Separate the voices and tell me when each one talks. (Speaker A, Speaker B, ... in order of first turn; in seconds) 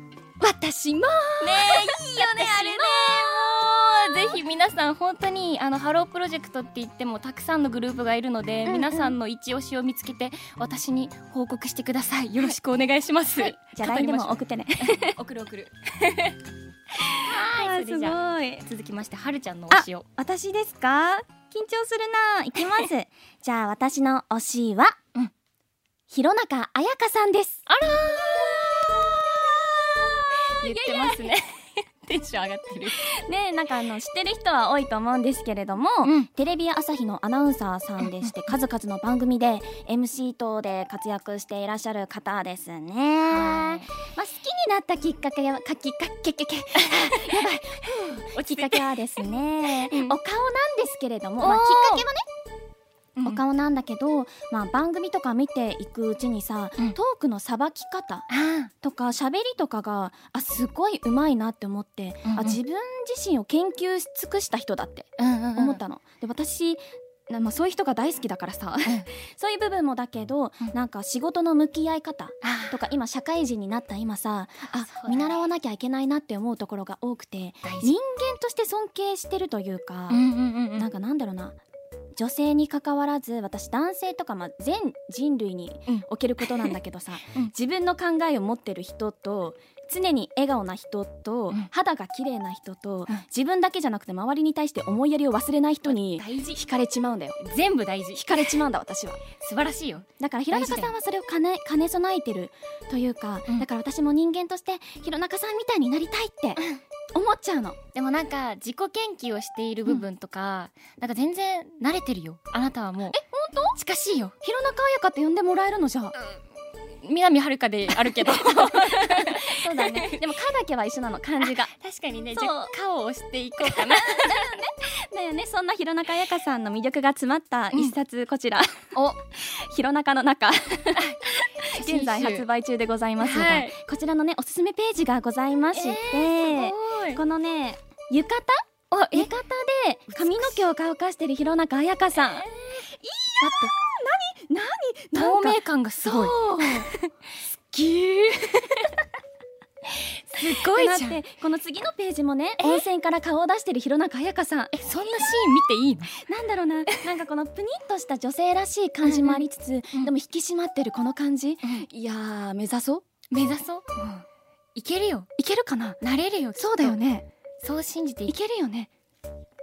Speaker A: 0.4-4.4, 8.7-9.2, 13.3-15.2, 17.2-18.6, 19.7-24.9, 26.1-27.6, 30.5-31.3, 33.1-52.2, 53.2-58.3, 58.8-80.2, 80.7-81.6, 82.2-97.4, 98.1-99.2, 100.2-106.6, 107.1-107.8, 113.1-113.8, 114.4-116.2, 118.1-121.7, 122.3-122.7, 123.6-146.9, 147.7-148.9, 150.4-154.7, 156.2-163.0, 165.4-166.0, 166.6-167.2, 168.3-168.9
Speaker B: 1.4-16.4, 17.1-20.1, 27.7-28.9, 30.4-33.1, 36.0-36.3, 38.0-38.3, 43.3-43.9, 47.0-47.5, 48.3-49.0, 49.8-50.2, 51.4-52.1, 53.2-53.4, 58.3-58.7, 62.2-62.6, 65.2-65.8, 72.4-72.8, 74.6-75.4, 77.6-77.9, 80.1-80.9, 85.9-86.7, 95.8-96.6, 97.4-98.6, 99.4-100.9, 107.9-113.2, 113.7-114.3, 116.1-120.2, 121.4-124.6, 130.9-132.5, 133.2-133.7, 135.7-137.2, 138.9-139.3, 140.1-140.6, 142.2-142.8, 143.4-143.7, 145.1-147.1, 149.9-151.2, 154.7-156.2, 159.0-159.4, 163.3-165.3, 166.0-167.0, 167.6-168.3